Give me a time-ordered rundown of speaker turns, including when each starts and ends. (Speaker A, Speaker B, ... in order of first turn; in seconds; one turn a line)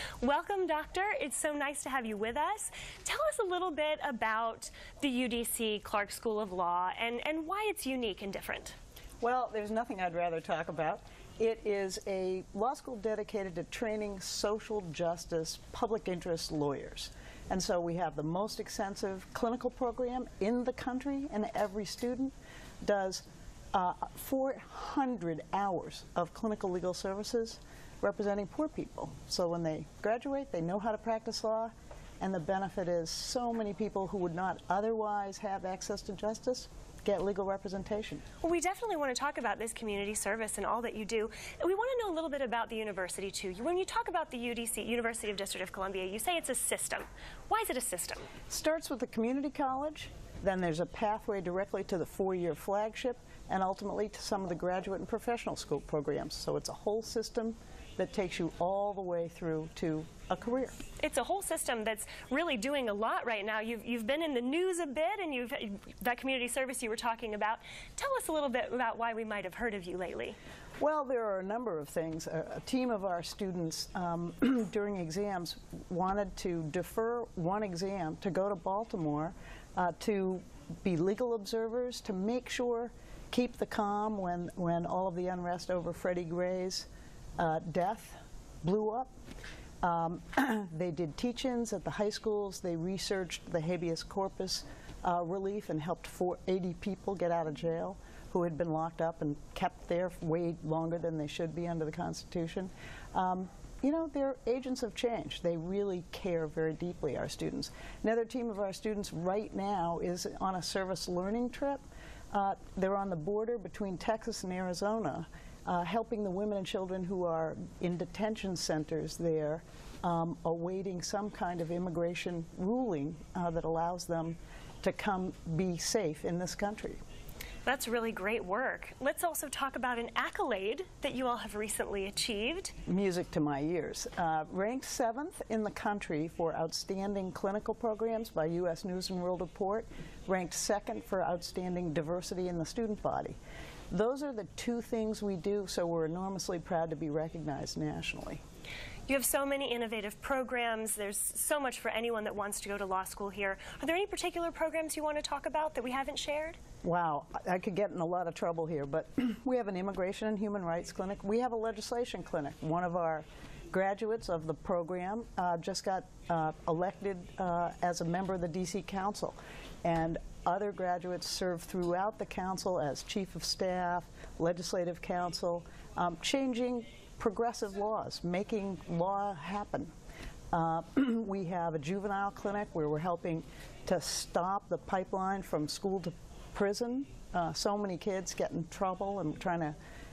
Speaker A: 0.2-8.7
Speaker B: 9.2-38.2
Speaker A: 38.4-48.3
Speaker B: 48.5-60.8
Speaker A: 61.0-70.4
Speaker B: 70.8-89.1
Speaker B: 89.8-127.0
Speaker A: 127.7-132.7
Speaker B: 132.9-143.3
Speaker B: 143.9-148.4
Speaker A: 149.1-156.6
Speaker B: 156.8-179.9
Speaker B: 180.5-189.8